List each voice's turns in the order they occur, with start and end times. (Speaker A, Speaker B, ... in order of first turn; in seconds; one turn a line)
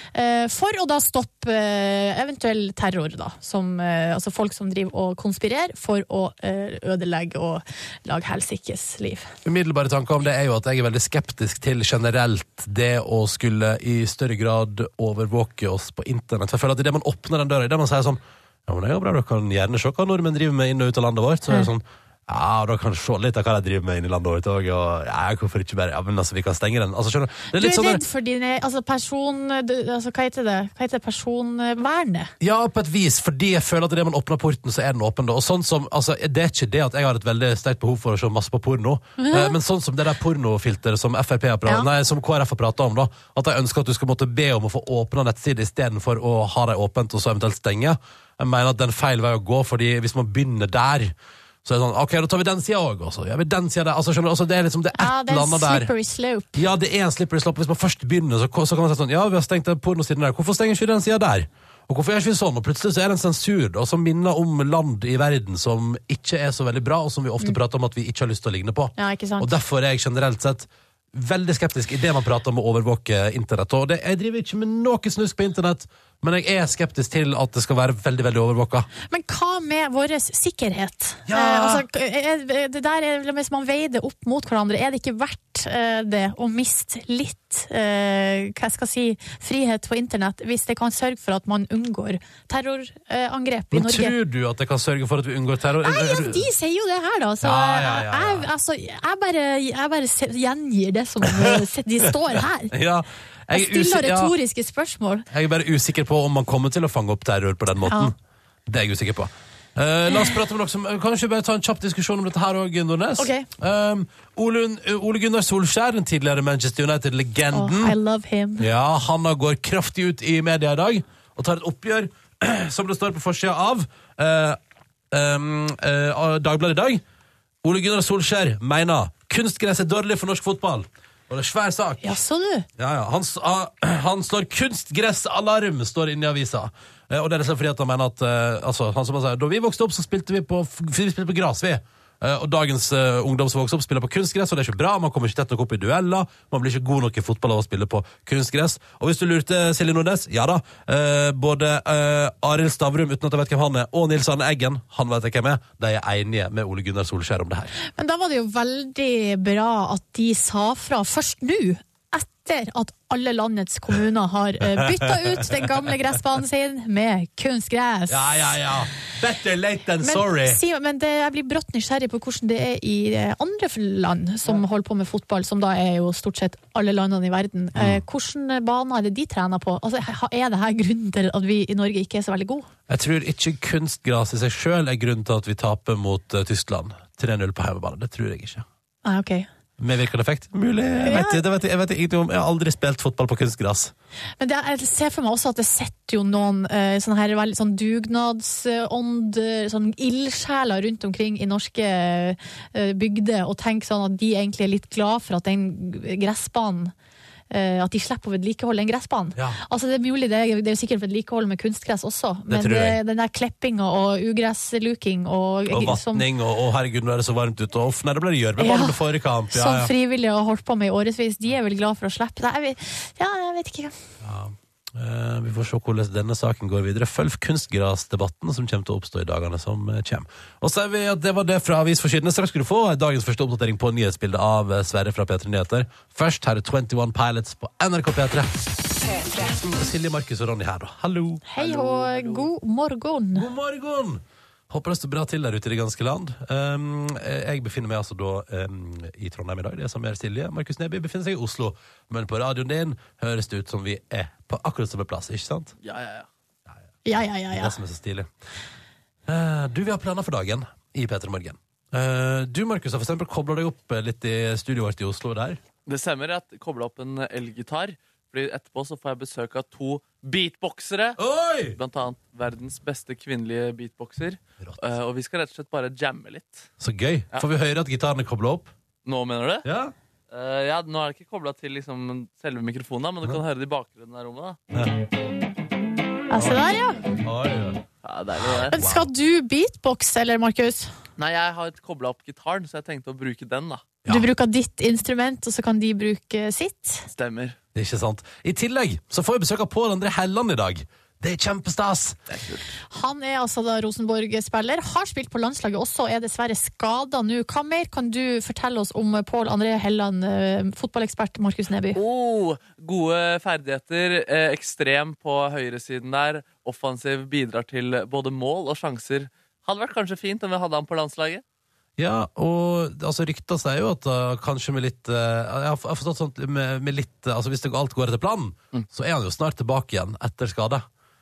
Speaker A: 0.1-9.3
Speaker B: 9.4-28.0
Speaker A: 27.5-32.3
Speaker B: 32.4-51.1
Speaker A: 39.2-39.6
Speaker B: 51.6-55.9
Speaker A: 54.9-56.5
Speaker B: 56.5-78.9
Speaker A: 69.0-69.5
Speaker A: 79.1-94.2
Speaker B: 81.3-81.8
Speaker B: 93.7-96.5
Speaker A: 95.8-102.8
Speaker B: 97.4-98.5
Speaker B: 101.2-104.3
Speaker A: 103.5-105.2
Speaker B: 105.3-108.1
Speaker A: 107.9-108.1
Speaker B: 108.7-118.0
Speaker A: 113.2-113.5
Speaker A: 117.5-118.7
Speaker B: 118.6-124.6
Speaker B: 125.1-127.0
Speaker B: 127.6-132.2
Speaker A: 132.0-132.7
Speaker B: 132.8-157.7
Speaker A: 157.8-168.6
Speaker B: 164.6-165.7
Speaker B: 168.1-170.6
Speaker A: 170.0-182.7
Speaker B: 177.8-178.0
Speaker B: 182.9-188.7
Speaker A: 189.0-189.5
Speaker B: 189.8-193.9
Speaker A: 191.0-191.4
Speaker A: 194.4-206.9
Speaker A: 207.5-216.2
Speaker B: 212.5-213.0
Speaker B: 215.7-219.9
Speaker A: 218.6-219.0
Speaker A: 219.5-223.9
Speaker B: 224.2-238.5
Speaker B: 239.3-241.4
Speaker A: 241.5-243.5
Speaker C: 241.6-242.5
Speaker B: 243.3-255.7
Speaker C: 255.8-256.3
Speaker A: 257.0-257.8
Speaker B: 257.5-258.3
Speaker B: 259.3-265.6
Speaker C: 265.9-271.2
Speaker B: 271.2-271.8
Speaker C: 271.7-276.7
Speaker B: 274.6-274.9
Speaker B: 276.8-278.7
Speaker C: 279.1-279.6
Speaker B: 279.6-279.9
Speaker C: 280.3-284.6
Speaker B: 284.7-285.0
Speaker A: 286.3-287.0
Speaker B: 286.3-286.6
Speaker B: 287.2-287.8
Speaker C: 288.0-288.7
Speaker B: 288.4-289.1
Speaker A: 288.7-290.9
Speaker C: 291.2-293.9
Speaker A: 294.1-297.1
Speaker C: 297.1-297.6
Speaker B: 297.7-302.2
Speaker C: 302.3-302.6
Speaker A: 302.9-312.0
Speaker C: 311.9-321.4
Speaker B: 322.0-330.9